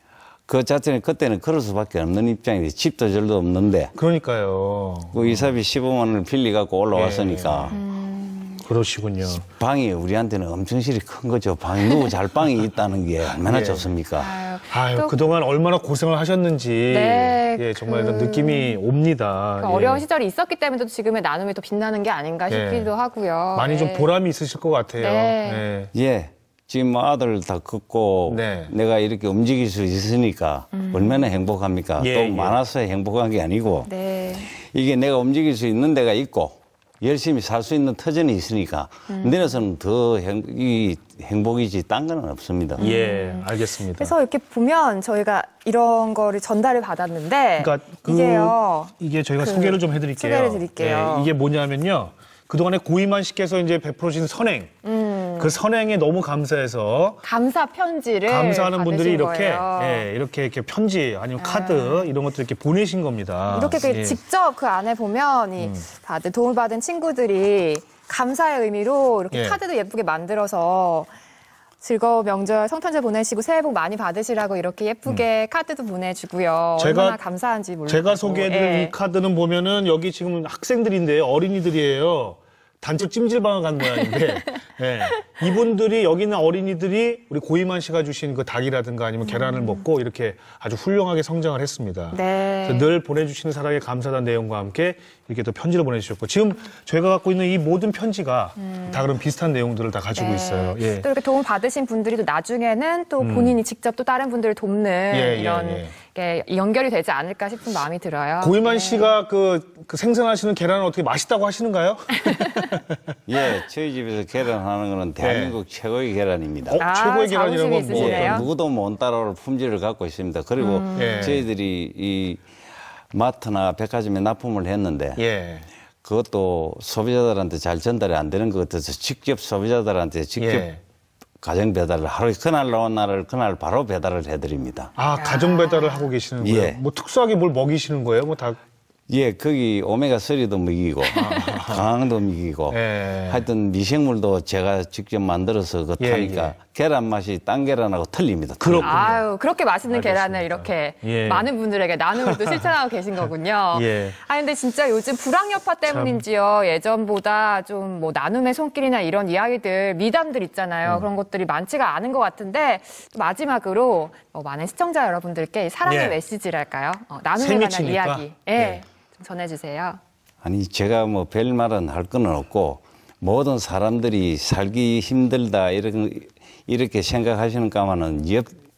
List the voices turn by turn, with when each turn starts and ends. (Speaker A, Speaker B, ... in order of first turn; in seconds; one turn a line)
Speaker A: 0.5-3.9
Speaker B: 3.9-5.6
Speaker A: 5.1-7.8
Speaker B: 6.9-7.8
Speaker C: 7.7-8.7
Speaker B: 8.6-9.5
Speaker A: 9.6-14.4
Speaker C: 11.8-12.1
Speaker B: 13.3-13.9
Speaker C: 14.1-15.1
Speaker B: 14.7-20.0
Speaker C: 16.9-18.8
Speaker C: 19.6-24.1
Speaker B: 22.5-22.9
Speaker B: 23.5-25.9
Speaker C: 25.0-25.6
Speaker A: 25.9-33.9
Speaker B: 28.3-28.7
Speaker C: 30.7-31.2
Speaker B: 32.0-32.6
Speaker C: 33.9-34.5
Speaker A: 34.5-42.9
Speaker C: 39.1-39.6
Speaker C: 42.8-51.3
Speaker B: 42.8-44.1
Speaker B: 47.6-54.8
Speaker C: 54.8-55.5
Speaker B: 55.4-57.2
Speaker C: 57.2-60.1
Speaker B: 58.2-64.2
Speaker C: 61.4-62.1
Speaker C: 63.5-71.1
Speaker B: 65.6-65.8
Speaker B: 69.3-69.6
Speaker C: 71.8-78.9
Speaker B: 76.8-77.2
Speaker B: 77.8-101.1
Speaker C: 84.2-84.5
Speaker C: 89.2-89.8
Speaker C: 92.1-92.9
Speaker C: 98.6-99.0
Speaker C: 100.1-109.1
Speaker B: 103.2-103.6
Speaker B: 105.1-105.9
Speaker B: 108.4-113.1
Speaker C: 112.2-112.8
Speaker A: 113.3-116.8
Speaker B: 115.2-115.6
Speaker B: 116.7-118.5
Speaker C: 116.8-118.5
Speaker A: 117.9-122.4
Speaker C: 120.6-121.4
Speaker B: 120.9-121.5
Speaker A: 123.1-125.2
Speaker B: 125.2-125.7
Speaker A: 126.0-130.7
Speaker B: 130.4-130.8
Speaker A: 131.4-134.9
Speaker B: 134.9-138.6
Speaker C: 135.1-136.1
Speaker A: 136.4-136.8
Speaker A: 139.1-149.0
Speaker C: 141.1-141.4
Speaker B: 141.1-141.9
Speaker B: 142.7-143.5
Speaker B: 146.0-146.6
Speaker B: 148.6-149.2
Speaker C: 148.8-170.0
Speaker B: 149.9-151.5
Speaker B: 152.1-152.7
Speaker B: 153.7-154.2
Speaker B: 155.8-156.2
Speaker B: 165.8-166.2
Speaker B: 167.4-168.8
Speaker A: 170.4-178.6